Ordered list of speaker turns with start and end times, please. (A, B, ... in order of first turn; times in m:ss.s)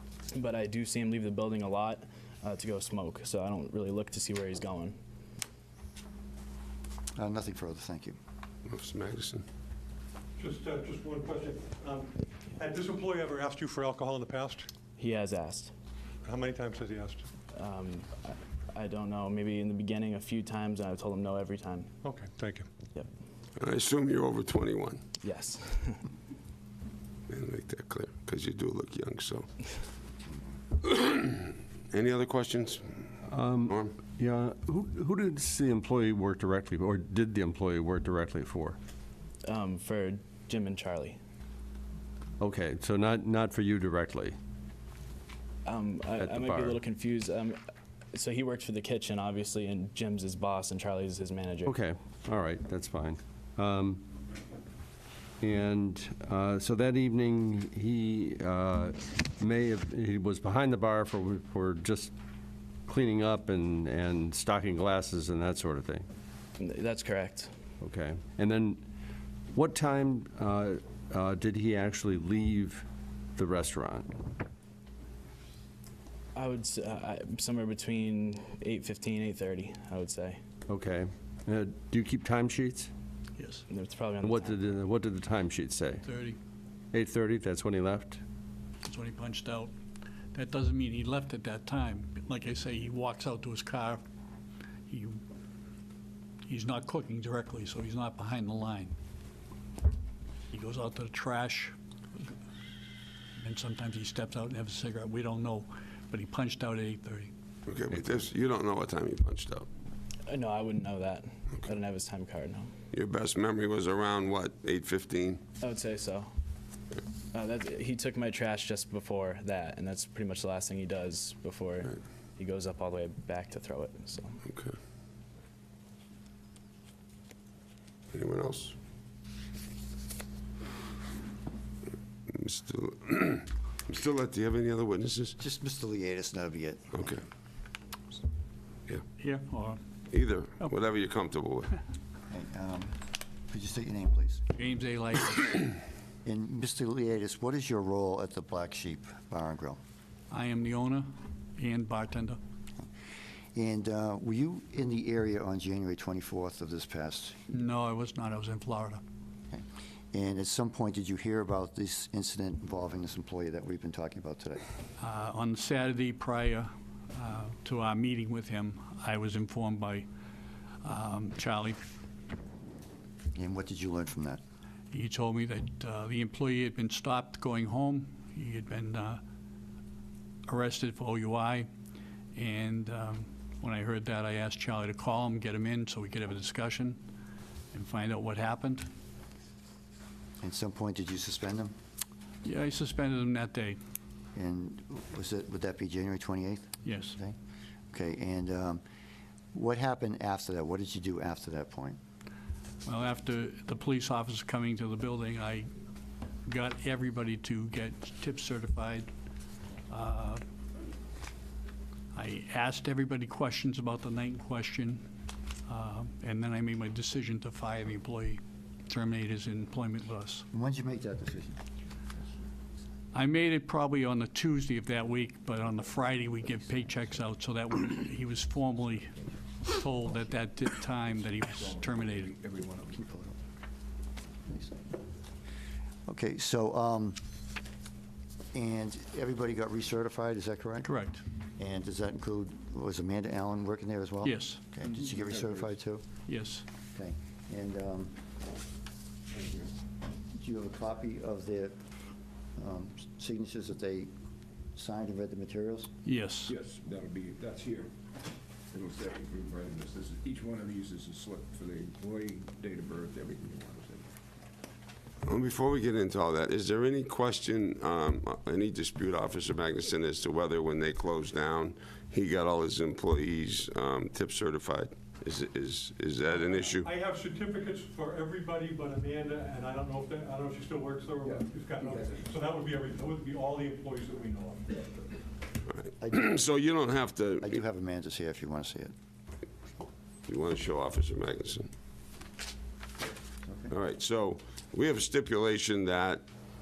0:00.3-0:05.0 A
0:07.2-0:08.2 B
0:08.7-0:09.4 C
0:10.4-0:14.7 D
0:15.0-0:15.7 A
0:16.2-0:17.2 D
0:17.5-0:21.9 A
0:22.0-0:22.7 D
0:23.6-0:25.0 C
0:25.2-0:26.0 A
0:27.3-0:29.5 C
0:30.8-0:33.0 C
0:33.3-0:38.8 E
0:33.7-0:33.9 C
0:39.5-0:41.2 A
0:42.4-0:44.4 E
0:45.7-0:47.6 A
0:46.2-0:46.8 E
0:48.1-0:51.8 A
0:51.6-0:54.0 E
0:55.4-1:02.1 E
1:02.9-1:06.1 E
1:06.6-1:07.5 A
1:07.8-1:08.8 E
1:09.5-1:12.8 E
1:13.4-1:14.2 E
1:16.4-1:20.4 A
1:20.7-1:22.9 E
1:23.4-1:23.6 F
1:23.7-1:24.7 A
1:24.2-1:26.0 E
1:26.0-1:26.4 F
1:26.9-1:28.2 E
1:28.8-1:29.7 F
1:30.3-1:34.0 F
1:34.9-1:35.2 F
1:36.5-1:39.0 F
1:40.5-1:42.3 F
1:43.4-1:47.3 F
1:47.7-1:49.7 C
1:50.3-1:52.7 A
1:52.9-1:55.4 C
1:55.6-1:56.3 A
1:57.3-2:04.4 A
2:04.5-2:04.8 C
2:08.1-2:08.8 C
2:12.3-2:15.4 C
2:15.4-2:17.2 B
2:19.2-2:19.8 F
2:20.1-2:21.8 C
2:22.3-2:24.4 B
2:24.5-2:25.7 F
2:26.2-2:29.8 B
2:30.3-2:32.4 F
2:33.6-2:37.4 B
2:37.5-2:39.0 F
2:39.5-2:44.6 B
2:45.0-2:50.1 F
2:50.8-2:51.8 F
2:53.4-2:54.4 B
2:54.9-2:59.2 F
3:00.5-3:01.7 F
3:02.4-3:07.0 F
3:07.7-3:08.9 F
3:10.4-3:11.7 B
3:12.4-3:13.8 F
3:14.4-3:17.4 B
3:16.8-3:17.2 F
3:17.9-3:18.8 B
3:19.5-3:22.0 B
3:22.8-3:25.7 F
3:26.5-3:29.1 F
3:29.9-3:30.4 F
3:32.1-3:35.0 F
3:35.7-3:40.5 F
3:40.5-3:41.6 B
3:43.1-3:52.4 F
3:51.4-3:53.1 G
3:53.1-3:53.3 B
3:54.5-3:54.7 B
3:56.1-3:57.2 B
3:58.5-4:00.9 B
4:00.8-4:01.2 F
4:01.6-4:06.0 B
4:04.2-4:04.6 F
4:05.0-4:05.7 G
4:06.3-4:06.6 F
4:06.9-4:08.1 B
4:09.3-4:09.7 G
4:10.4-4:11.8 B
4:12.6-4:14.1 B
4:14.8-4:15.9 B
4:16.0-4:16.5 F
4:16.5-4:17.9 G
4:18.7-4:24.1 G
4:25.2-4:36.9 C
4:36.3-4:44.7 D
4:41.2-4:42.3 G
4:45.7-4:47.6 C
4:46.0-4:46.4 B
4:47.4-4:48.9 B
4:50.3-4:51.7 C
4:53.4-4:53.7 B
4:53.7-4:56.2 C